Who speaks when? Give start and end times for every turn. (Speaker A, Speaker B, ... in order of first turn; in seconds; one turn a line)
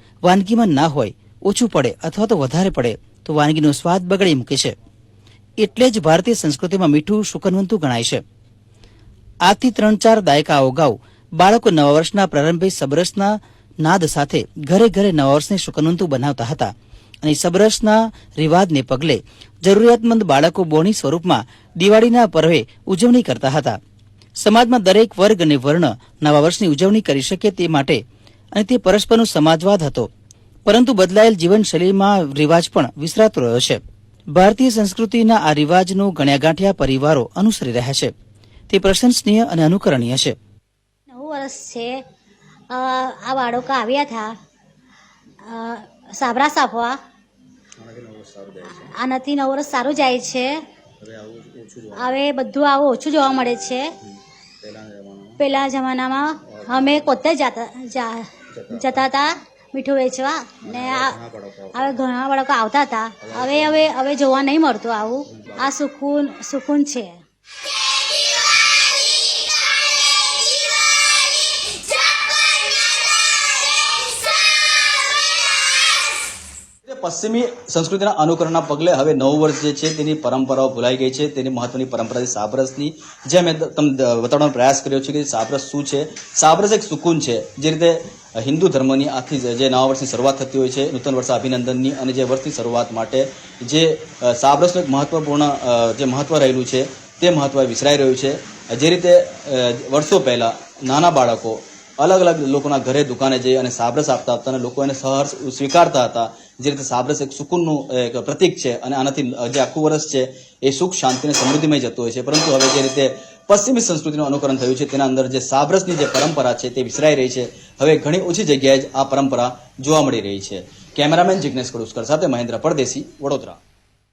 Speaker A: 0.2-4.7
Speaker A: 5.6-8.2
Speaker A: 9.4-16.7
Speaker A: 17.2-23.8
Speaker A: 24.4-28.0
Speaker A: 28.5-30.1
Speaker A: 30.6-33.8
Speaker A: 34.3-38.1
Speaker A: 38.7-40.4
Speaker B: 41.1-42.0
Speaker B: 42.7-44.3
Speaker B: 45.5-47.0
Speaker C: 47.8-48.9
Speaker B: 48.8-50.5
Speaker C: 51.0-52.1
Speaker B: 52.0-53.8
Speaker C: 54.1-55.3
Speaker B: 55.4-61.1
Speaker C: 56.5-57.0
Speaker C: 58.5-59.1
Speaker C: 60.6-61.9
Speaker B: 61.7-67.2
Speaker C: 63.2-63.8
Speaker C: 76.8-123.6